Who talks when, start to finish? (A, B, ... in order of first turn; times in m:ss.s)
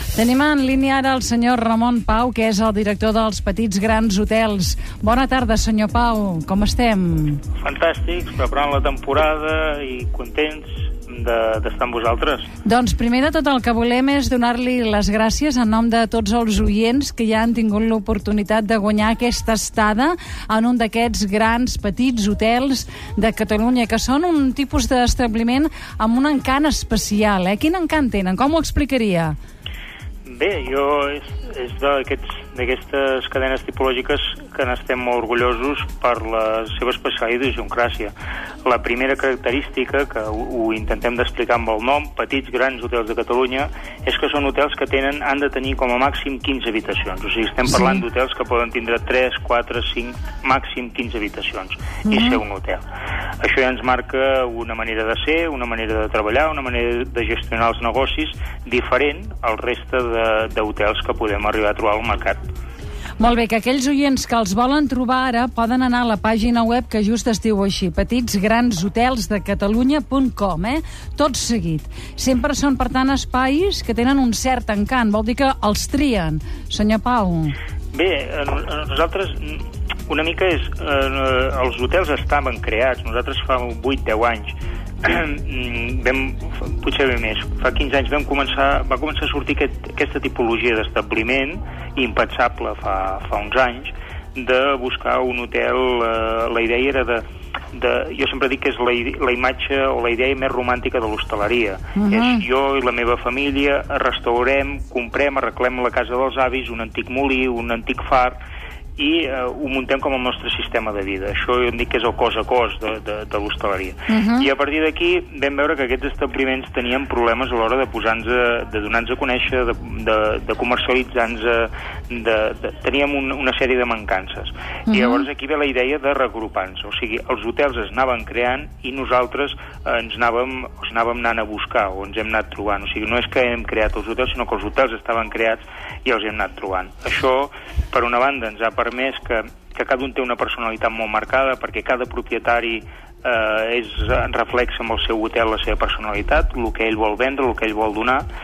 0:00.1-0:07.4 A
0:07.6-0:12.5 B
0:12.6-0:29.4 A
0:30.3-0:38.1 B
0:38.6-0:52.8 B
0:47.7-0:48.0 A
0:52.1-0:52.4 A
0:53.4-1:02.4 B
1:03.2-1:17.6 A
1:17.9-1:48.4 B
1:42.0-1:42.4 A
1:49.0-2:28.2 B
1:54.1-1:54.5 A
2:04.9-2:05.3 A